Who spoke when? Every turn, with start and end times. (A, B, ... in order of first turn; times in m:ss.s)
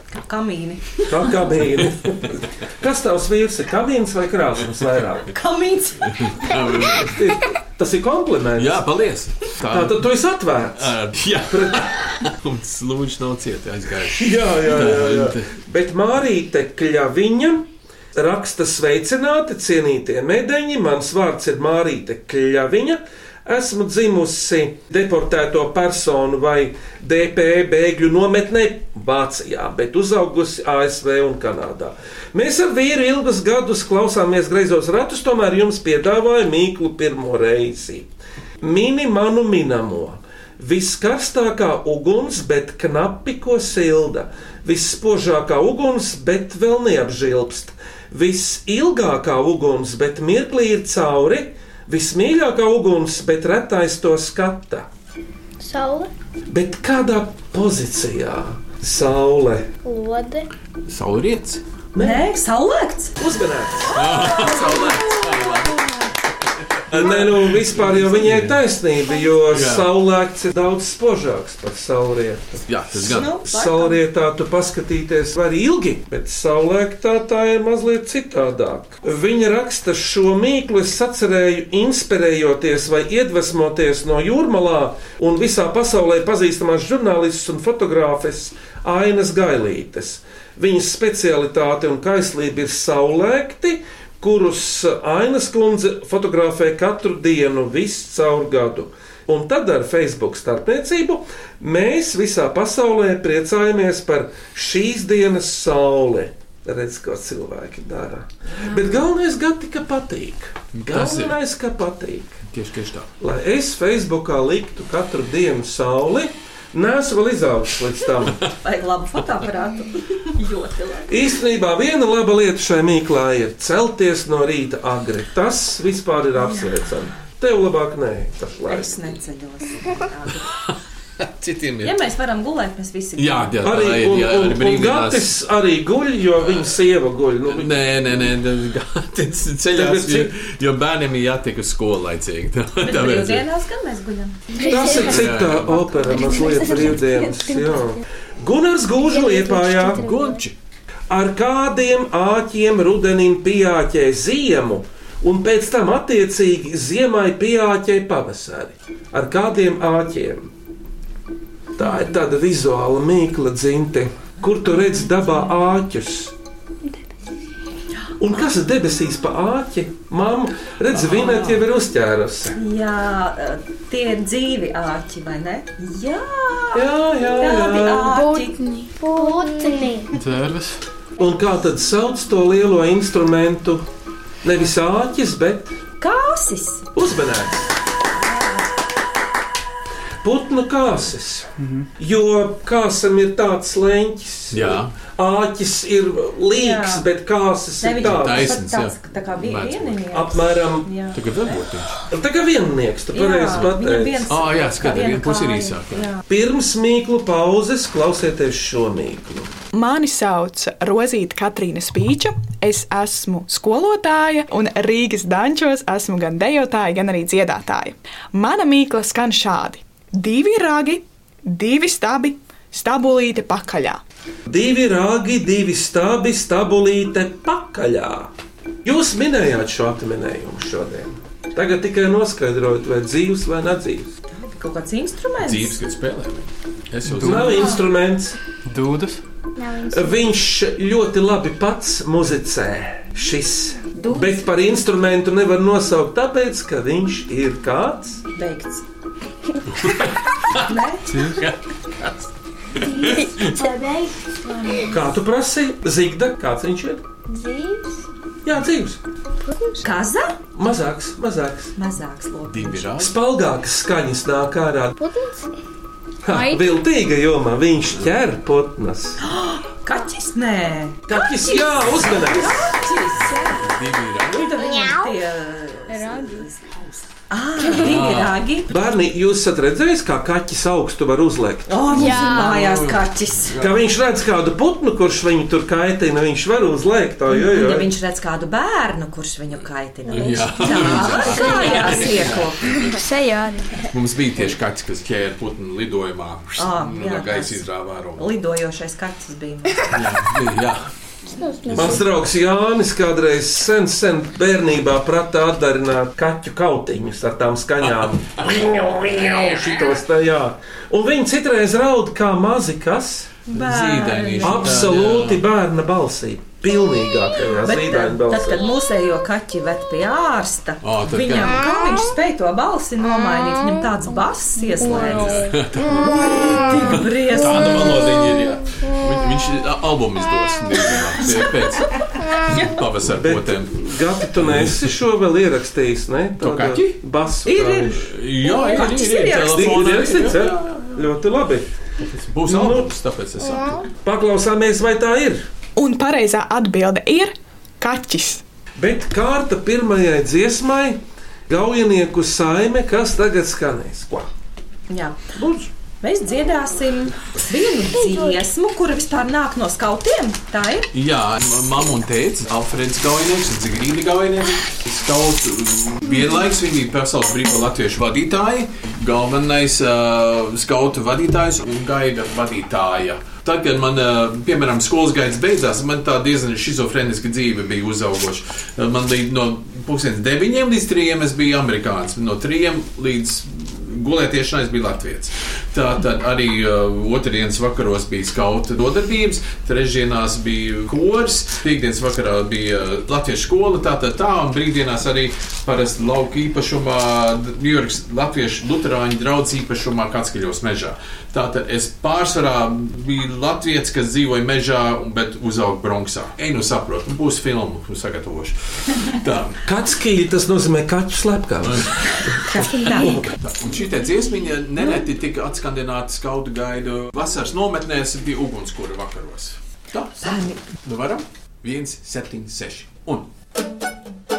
0:00.1-0:01.4 A
0:01.1-0:05.3 B
0:05.3-0:06.2 A
0:06.1-0:07.2 C
0:06.9-0:08.8 B
0:08.6-0:10.0 C
0:09.7-0:10.9 B
0:10.8-0:15.5 C
0:11.5-0:12.0 B
0:14.1-0:38.1 B
0:38.6-0:54.9 B
0:55.6-0:56.1 D
0:56.5-0:59.7 B
0:59.8-1:00.5 D
1:00.9-1:01.6 C
1:01.9-1:02.2 B
1:02.0-1:03.1 A
1:03.2-1:04.1 B
1:03.9-1:05.8 C
1:04.4-1:04.8 A
1:06.9-1:08.6 C
1:06.9-1:52.4 B
1:09.5-1:09.9 C
1:12.7-1:13.4 C
1:13.0-1:14.0 A
1:50.7-1:51.4 C
1:52.5-1:53.1 C
1:53.2-1:58.4 B
1:58.5-2:01.2 A
2:01.1-2:09.0 B
2:08.6-2:10.5 A
2:10.6-2:12.0 C
2:11.8-2:13.5 A
2:13.2-2:15.3 C
2:13.6-2:17.8 B
2:17.5-2:23.4 C
2:19.7-2:20.3 B
2:22.8-2:24.9 A
2:24.6-2:30.0 B
2:25.0-2:26.0 C
2:29.1-2:30.4 D
2:30.0-2:30.5 C
2:31.1-2:40.5 B
2:41.8-2:46.3 B
2:48.2-2:52.6 B
2:52.5-2:58.6 A
2:56.7-2:58.1 B
2:58.0-3:00.0 E
2:59.0-3:00.1 D
3:00.1-3:00.8 F
3:01.2-3:03.9 B
3:04.4-3:05.7 B
3:06.0-3:06.9 A
3:06.9-3:07.7 B
3:08.2-3:08.6 A
3:10.2-3:18.6 B
3:14.5-3:14.9 C
3:16.5-3:17.1 A
3:17.8-3:21.6 A
3:18.0-3:20.0 C
3:20.1-3:20.9 B
3:21.1-3:22.0 C
3:22.1-3:24.3 B
3:23.1-3:26.2 A
3:24.3-3:26.1 C
3:26.3-3:29.5 B
3:29.7-3:44.0 G
3:44.5-3:48.3 B
3:48.8-3:54.1 B
3:54.3-3:55.8 A
3:55.4-3:57.8 C
3:57.1-3:57.6 F
3:57.2-3:58.4 B
3:57.5-3:57.8 A
3:58.6-3:59.2 F
3:59.6-4:00.2 D
3:59.9-4:08.2 B
4:04.0-4:04.3 A
4:08.4-4:08.8 A
4:10.6-4:11.1 A
4:11.1-4:11.4 F
4:11.2-4:11.6 C
4:12.8-4:13.9 E
4:13.0-4:13.9 D
4:13.0-4:13.6 C
4:14.6-4:14.9 A
4:14.9-4:17.0 B
4:17.3-4:17.9 D
4:18.4-4:19.0 B
4:19.8-4:20.4 A
4:20.6-4:21.7 B
4:21.8-4:22.9 A
4:22.5-4:23.2 C
4:23.0-4:25.0 B
4:25.1-4:25.4 D
4:26.2-4:29.2 B
4:26.3-4:26.7 E
4:29.2-4:33.8 A
4:31.1-4:32.7 B
4:33.3-4:34.6 C
4:34.3-4:36.7 A
4:34.6-4:35.2 D
4:35.9-4:36.5 E
4:37.3-4:38.7 A
4:37.7-4:38.4 C
4:38.7-4:41.7 B
4:41.7-4:43.6 A
4:41.9-4:42.6 E
4:42.0-4:43.7 C
4:43.6-4:47.9 B
4:47.3-4:52.8 A
4:50.1-4:53.0 C
4:50.2-4:53.8 E
4:53.9-4:58.4 C
4:56.6-4:59.9 A
4:59.9-5:00.9 C
5:01.4-5:02.0 D
5:01.7-5:02.0 C
5:01.7-5:13.4 B
5:13.5-5:14.8 A
5:13.5-5:15.4 C
5:14.4-5:18.6 B
5:17.6-5:27.9 A
5:20.8-5:21.6 C
5:24.8-5:35.0 C
5:33.1-5:38.1 B
5:36.4-5:37.0 C
5:37.4-5:39.9 A
5:38.0-5:40.6 C
5:39.5-5:41.7 B
5:42.0-5:43.8 C
5:42.5-5:42.9 B
5:44.0-5:45.5 B
5:45.8-5:48.4 G
5:48.8-5:54.3 B
5:54.9-5:55.3 A
5:55.4-5:55.7 B
5:56.0-6:00.9 A
6:00.9-6:49.6 C
6:49.6-6:53.3 B
6:51.6-6:52.7 C
6:52.5-6:53.2 A
6:53.4-7:03.3 C
7:00.2-7:00.6 A